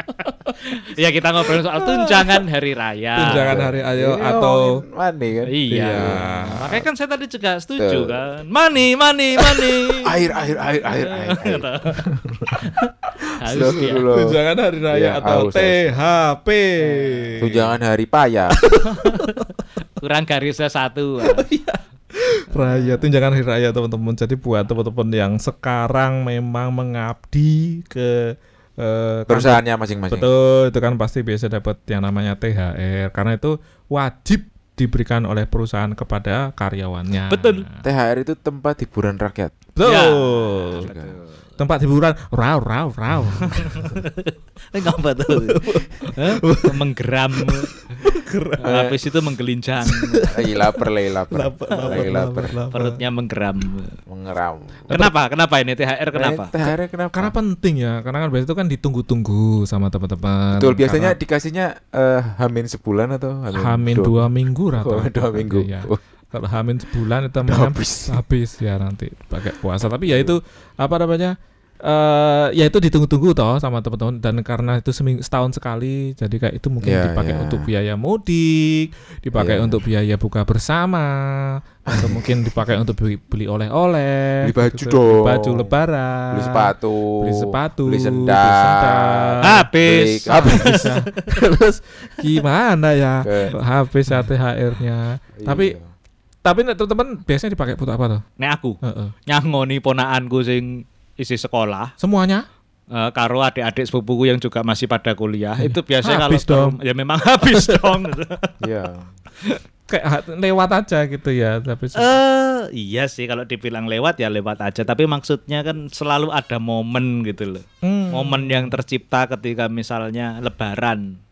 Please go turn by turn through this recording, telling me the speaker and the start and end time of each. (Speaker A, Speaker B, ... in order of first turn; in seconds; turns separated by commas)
Speaker A: 0.2-3.6, Speaker B: 1.8-2.1, Speaker B: 3.2-4.8, Speaker C: 3.2-6.4, Speaker A: 5.5-12.1, Speaker B: 5.7-6.8, Speaker C: 7.8-8.2, Speaker C: 10.0-12.7, Speaker A: 12.6-14.1, Speaker C: 13.4-14.4, Speaker B: 14.1-17.7, Speaker C: 14.9-15.9, Speaker A: 16.8-17.4, Speaker C: 17.4-18.6, Speaker B: 18.6-19.5, Speaker A: 18.9-19.4, Speaker A: 20.0-21.4, Speaker B: 21.2-37.8, Speaker A: 22.6-23.1, Speaker C: 29.3-30.3, Speaker A: 37.3-37.6, Speaker C: 37.8-39.5, Speaker B: 39.7-40.9, Speaker A: 39.8-41.4, Speaker C: 40.8-41.1, Speaker B: 41.6-43.9, Speaker A: 43.4-47.7, Speaker B: 45.3-46.9, Speaker B: 47.4-48.7, Speaker A: 48.6-50.3, Speaker C: 48.6-49.0, Speaker B: 49.9-53.0, Speaker C: 50.3-52.5, Speaker A: 51.7-52.1, Speaker A: 52.7-53.9, Speaker C: 54.1-54.9, Speaker A: 54.9-56.5, Speaker C: 56.1-57.3, Speaker B: 57.1-61.1, Speaker C: 60.5-66.0, Speaker B: 63.5-71.3, Speaker C: 67.5-68.2, Speaker C: 70.1-70.3, Speaker B: 71.8-89.6, Speaker C: 76.8-77.7, Speaker C: 79.3-79.8, Speaker C: 81.9-82.3, Speaker C: 84.4-85.7, Speaker C: 86.3-90.9, Speaker A: 89.4-91.5, Speaker B: 90.3-95.7, Speaker C: 93.2-93.5, Speaker C: 95.4-95.9, Speaker B: 96.4-98.2, Speaker A: 98.4-101.9, Speaker B: 98.8-99.1, Speaker B: 102.0-102.4, Speaker A: 102.9-108.5, Speaker B: 105.6-106.8, Speaker B: 107.5-107.9, Speaker C: 108.6-109.1, Speaker B: 109.9-112.2, Speaker A: 112.0-121.2, Speaker B: 117.8-118.8